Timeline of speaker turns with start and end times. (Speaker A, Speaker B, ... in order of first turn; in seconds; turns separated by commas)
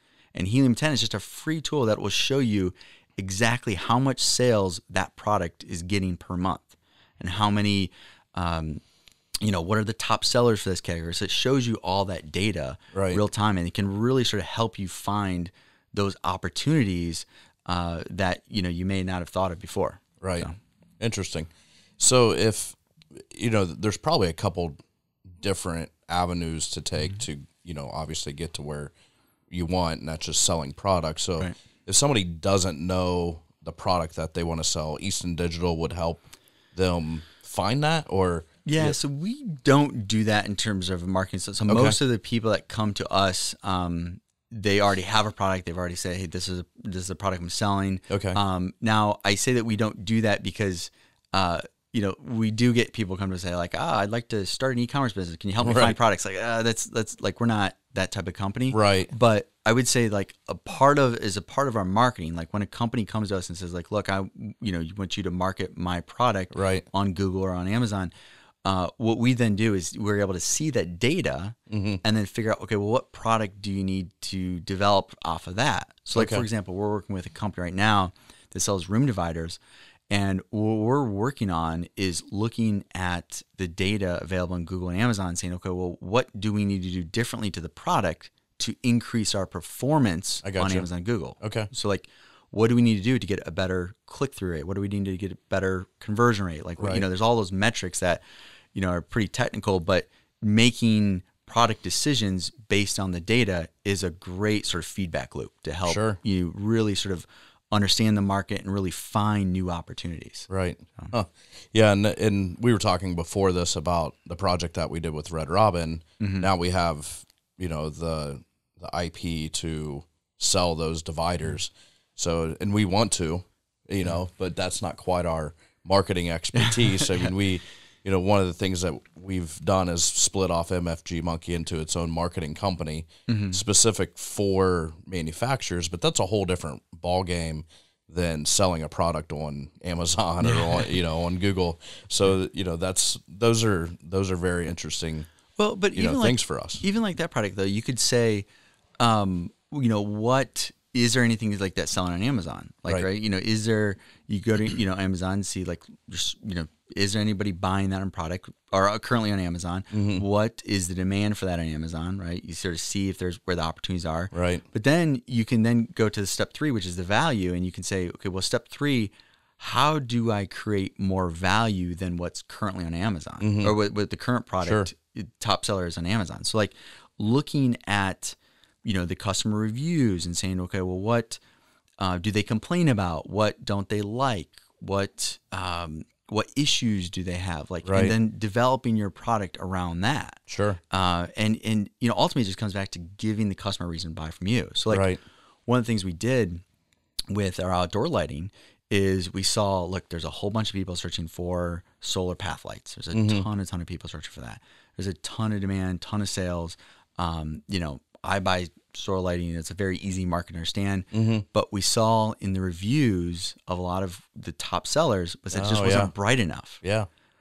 Speaker A: 0.3-8.8, Speaker A: 9.4-20.6, Speaker B: 12.9-13.2, Speaker B: 20.2-24.8, Speaker B: 25.4-28.9, Speaker B: 29.5-36.2, Speaker B: 36.7-39.0, Speaker A: 38.6-68.1, Speaker B: 41.7-42.0, Speaker B: 48.1-48.4, Speaker B: 55.6-56.0, Speaker B: 58.7-59.1, Speaker B: 66.5-66.8, Speaker A: 68.6-79.6, Speaker B: 71.7-72.0, Speaker B: 76.1-76.4, Speaker A: 80.1-98.2, Speaker B: 90.4-90.8, Speaker B: 91.4-91.7, Speaker B: 96.8-97.0, Speaker A: 98.7-111.1, Speaker B: 105.8-106.2, Speaker B: 110.5-145.3, Speaker A: 116.2-116.5, Speaker A: 126.5-127.3, Speaker A: 133.3-133.6, Speaker A: 140.4-140.9, Speaker A: 145.6-148.5, Speaker B: 145.9-146.8, Speaker A: 149.0-181.4, Speaker B: 159.9-160.2, Speaker B: 164.3-164.6, Speaker B: 173.4-173.7, Speaker B: 174.6-174.9, Speaker A: 182.0-195.1, Speaker B: 187.8-188.1, Speaker B: 190.5-190.8, Speaker B: 194.9-195.2, Speaker A: 195.7-196.6, Speaker A: 197.3-216.8, Speaker B: 203.1-203.4, Speaker B: 211.1-211.4, Speaker B: 215.5-216.1, Speaker B: 216.8-217.1